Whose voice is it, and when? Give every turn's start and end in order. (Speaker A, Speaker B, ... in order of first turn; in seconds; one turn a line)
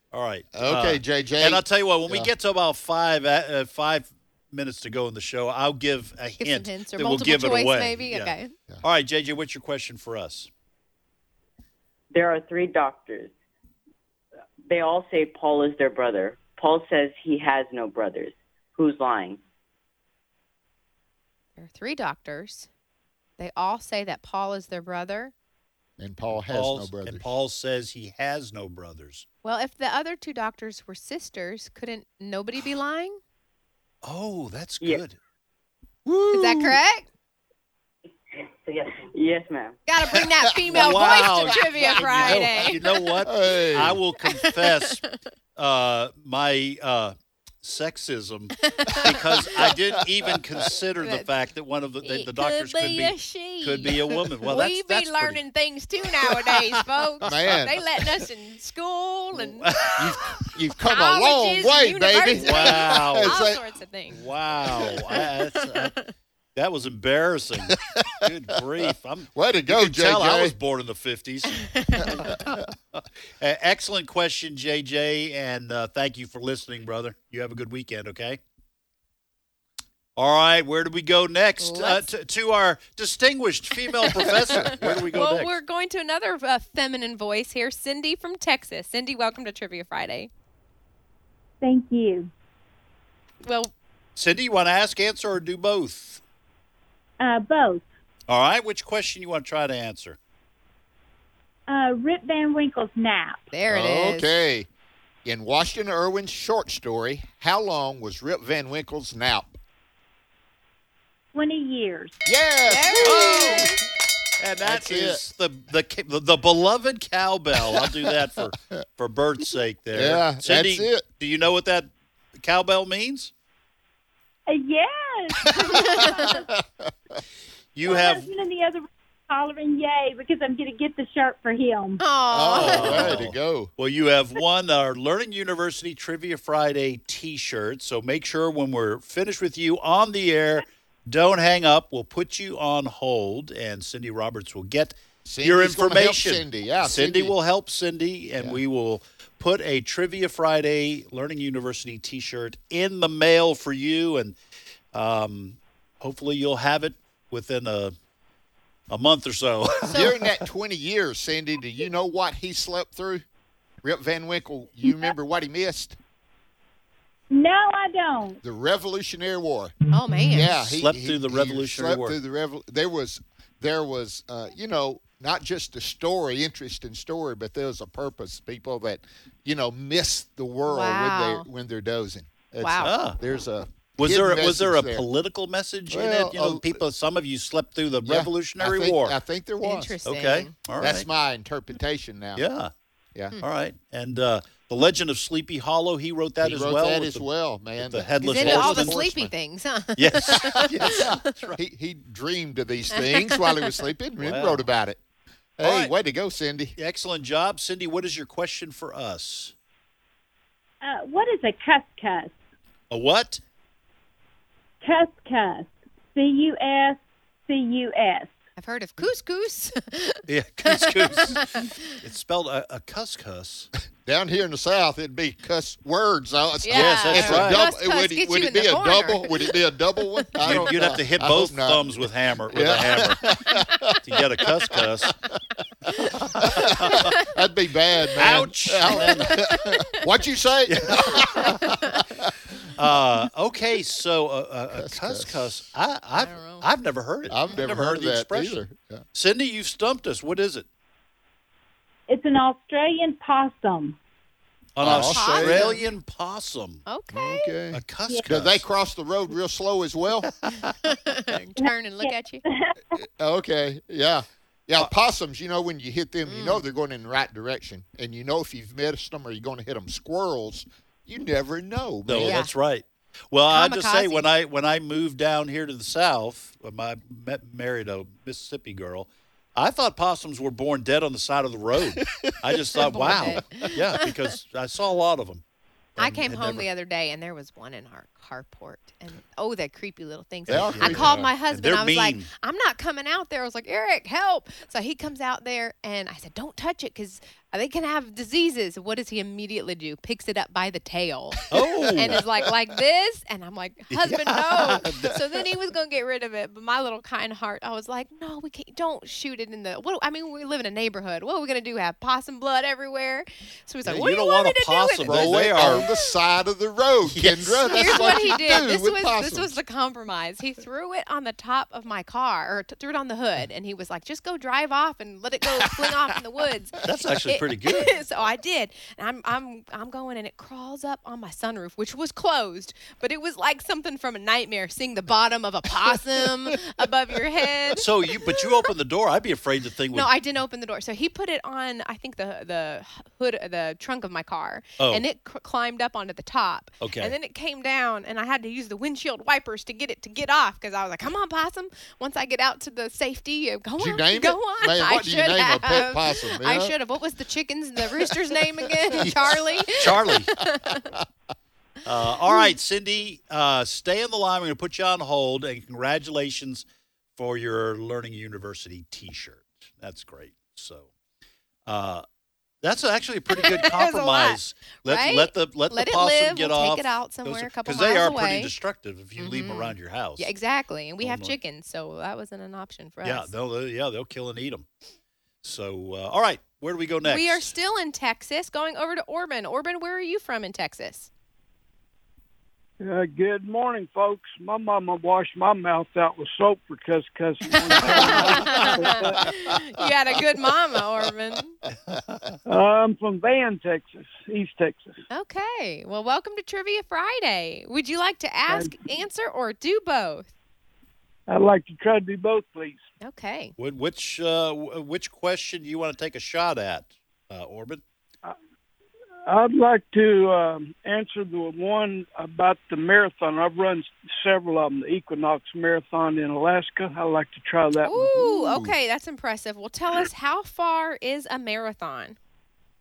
Speaker A: 0.1-10.5
Speaker B: 0.5-2.3
Speaker C: 6.4-8.5
Speaker D: 12.1-13.3
Speaker D: 14.7-19.4
Speaker C: 21.6-22.7
Speaker C: 23.4-25.3
Speaker B: 26.0-27.3
Speaker A: 26.4-29.2
Speaker C: 29.4-33.2
Speaker A: 34.0-35.2
Speaker A: 36.1-36.8
Speaker C: 36.3-37.1
Speaker D: 38.4-39.8
Speaker C: 39.9-42.8
Speaker A: 40.7-45.0
Speaker B: 40.7-44.0
Speaker C: 44.2-45.2
Speaker A: 45.6-55.4
Speaker C: 48.7-49.6
Speaker B: 49.1-50.3
Speaker C: 51.0-51.3
Speaker C: 52.0-59.7
Speaker B: 57.2-57.8
Speaker A: 59.6-60.1
Speaker B: 59.9-63.6
Speaker C: 60.8-64.2
Speaker A: 62.4-63.4
Speaker A: 64.1-66.0
Speaker C: 65.1-66.1
Speaker A: 66.5-71.6
Speaker B: 69.3-70.6
Speaker C: 71.6-72.3
Speaker B: 72.0-72.6
Speaker A: 72.2-78.4
Speaker A: 80.2-85.5
Speaker C: 81.6-82.1
Speaker C: 84.0-90.3
Speaker E: 91.6-92.3
Speaker C: 93.4-93.7
Speaker A: 94.2-96.2
Speaker E: 97.2-97.8
Speaker A: 98.3-100.2
Speaker E: 101.7-103.4
Speaker C: 103.5-104.3
Speaker B: 103.7-104.7
Speaker B: 105.2-109.5
Speaker E: 111.3-112.2
Speaker B: 112.2-113.8
Speaker C: 112.7-113.8
Speaker A: 113.0-113.7
Speaker A: 114.4-123.3
Speaker B: 114.6-115.2
Speaker B: 117.7-118.8
Speaker B: 119.9-121.1
Speaker E: 124.5-126.5
Speaker B: 125.9-126.9
Speaker A: 127.8-128.3
Speaker E: 127.8-132.0
Speaker C: 132.0-133.2
Speaker B: 132.3-133.7
Speaker A: 132.5-154.3
Speaker B: 145.2-147.3
Speaker A: 154.9-157.9
Speaker A: 158.9-160.3
Speaker B: 159.9-163.2
Speaker B: 163.8-166.0
Speaker E: 167.3-168.4
Speaker B: 168.4-169.8
Speaker C: 169.9-170.6
Speaker B: 170.3-185.0
Speaker A: 170.8-172.2
Speaker C: 180.7-181.5
Speaker C: 182.6-182.9
Speaker A: 182.8-183.2
Speaker A: 184.0-189.2
Speaker B: 185.9-186.8
Speaker B: 188.0-189.9
Speaker C: 189.6-190.5
Speaker A: 190.1-191.1
Speaker B: 190.8-192.4
Speaker A: 192.3-192.7
Speaker A: 193.4-197.2
Speaker B: 196.4-199.2
Speaker A: 197.8-199.3
Speaker C: 198.2-201.0
Speaker A: 200.0-201.6
Speaker B: 200.8-205.0
Speaker C: 203.0-203.7
Speaker A: 204.2-204.7
Speaker B: 205.6-206.8
Speaker A: 205.6-205.9
Speaker A: 206.8-209.5
Speaker E: 210.8-212.3
Speaker A: 212.9-213.4
Speaker E: 214.8-218.3
Speaker C: 218.6-221.7
Speaker A: 220.3-223.7
Speaker B: 224.1-235.1
Speaker C: 226.6-229.5
Speaker A: 226.7-227.6
Speaker A: 230.4-233.3
Speaker A: 234.0-235.1
Speaker A: 236.2-237.1
Speaker B: 236.3-242.3
Speaker A: 238.2-239.5
Speaker C: 238.9-239.9
Speaker A: 240.7-241.6
Speaker A: 242.8-248.6
Speaker B: 244.7-245.6
Speaker C: 246.2-246.7
Speaker B: 247.3-249.0
Speaker A: 249.1-250.7
Speaker E: 252.1-254.0
Speaker A: 254.8-256.8
Speaker B: 254.8-255.8
Speaker C: 254.9-255.9
Speaker C: 256.9-257.5
Speaker B: 257.1-260.3
Speaker A: 257.7-258.6
Speaker C: 260.8-262.4
Speaker E: 261.6-262.7
Speaker B: 263.0-272.4
Speaker C: 266.2-266.6
Speaker A: 272.1-285.4
Speaker C: 272.2-272.5
Speaker C: 273.5-274.2
Speaker B: 282.2-283.0
Speaker C: 282.8-284.1
Speaker A: 286.0-286.7
Speaker C: 286.0-315.8
Speaker B: 290.5-291.3
Speaker A: 290.5-292.3
Speaker A: 301.5-302.2
Speaker B: 301.6-302.2
Speaker A: 303.9-305.2
Speaker A: 313.9-315.9
Speaker B: 315.0-319.6
Speaker A: 317.1-318.3
Speaker C: 317.6-337.9
Speaker A: 326.8-328.0
Speaker A: 337.8-340.1
Speaker C: 339.9-360.9
Speaker A: 344.8-345.0
Speaker A: 346.8-347.1
Speaker B: 353.8-356.8
Speaker B: 358.9-359.1
Speaker A: 359.7-360.4
Speaker A: 361.8-366.6
Speaker A: 367.2-370.9
Speaker A: 371.6-372.0
Speaker A: 372.6-380.3
Speaker C: 373.3-378.5
Speaker C: 379.2-383.3
Speaker A: 381.0-381.4
Speaker A: 383.0-384.7
Speaker A: 385.4-387.5
Speaker C: 387.0-391.1
Speaker F: 392.8-399.4
Speaker C: 397.7-401.6
Speaker F: 402.4-405.0
Speaker C: 405.1-410.3
Speaker F: 408.5-408.8
Speaker F: 411.3-412.8
Speaker C: 413.0-413.5
Speaker A: 413.6-417.8
Speaker F: 419.2-428.6
Speaker C: 427.8-432.2
Speaker B: 428.2-428.7